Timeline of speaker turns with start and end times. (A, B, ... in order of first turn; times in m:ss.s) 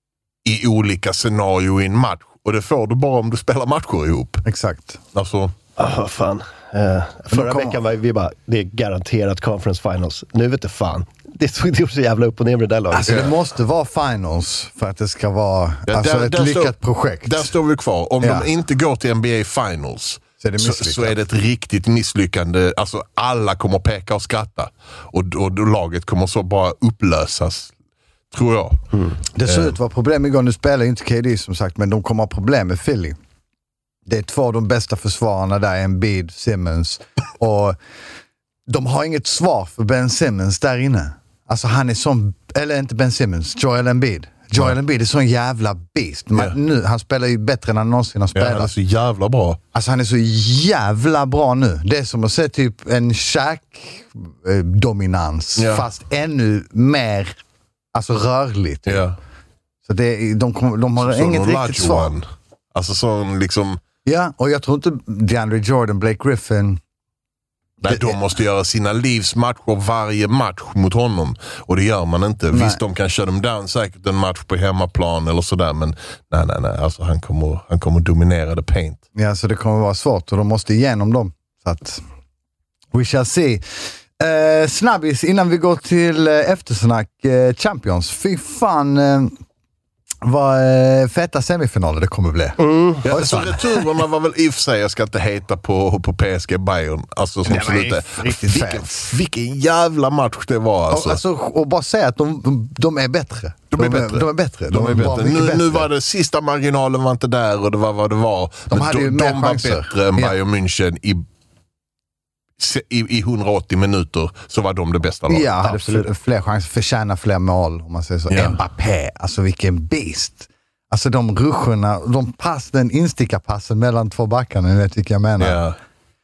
0:00.5-0:04.4 A
0:04.5-0:05.0 B
0:05.1-0:05.5 A
0:05.8-0:13.3 C
0:07.3-0:07.8 B
0:12.9-0:17.5 B
0:15.9-0:27.7 A
0:18.2-0:18.5 B
0:20.4-0:21.2 B
0:28.3-0:28.8 A
0:29.4-0:33.2 B
0:29.4-0:29.8 A
0:34.1-0:37.8 B
0:38.7-0:48.7 B
0:48.4-0:49.6 A
0:49.7-0:57.4 B
0:55.6-0:55.9 A
0:57.9-0:59.1 B
0:58.9-0:59.2 A
0:59.9-1:02.2 B
1:01.0-1:02.2 A
1:02.8-1:03.8 A
1:04.0-1:06.8 B
1:07.8-1:19.0 A
1:07.9-1:08.1 B
1:12.5-1:12.8 B
1:19.2-1:22.0 B
1:22.9-1:29.3 B
1:30.2-1:33.8 B
1:32.6-1:33.1 C
1:33.0-1:41.2 A
1:37.5-1:39.1 B
1:40.9-1:45.9 B
1:43.7-1:51.2 A
1:48.7-1:50.4 B
1:52.6-1:55.5 A
1:55.3-2:05.6 B
1:55.6-1:56.1 C
1:58.3-1:58.6 A
2:05.4-2:05.8 A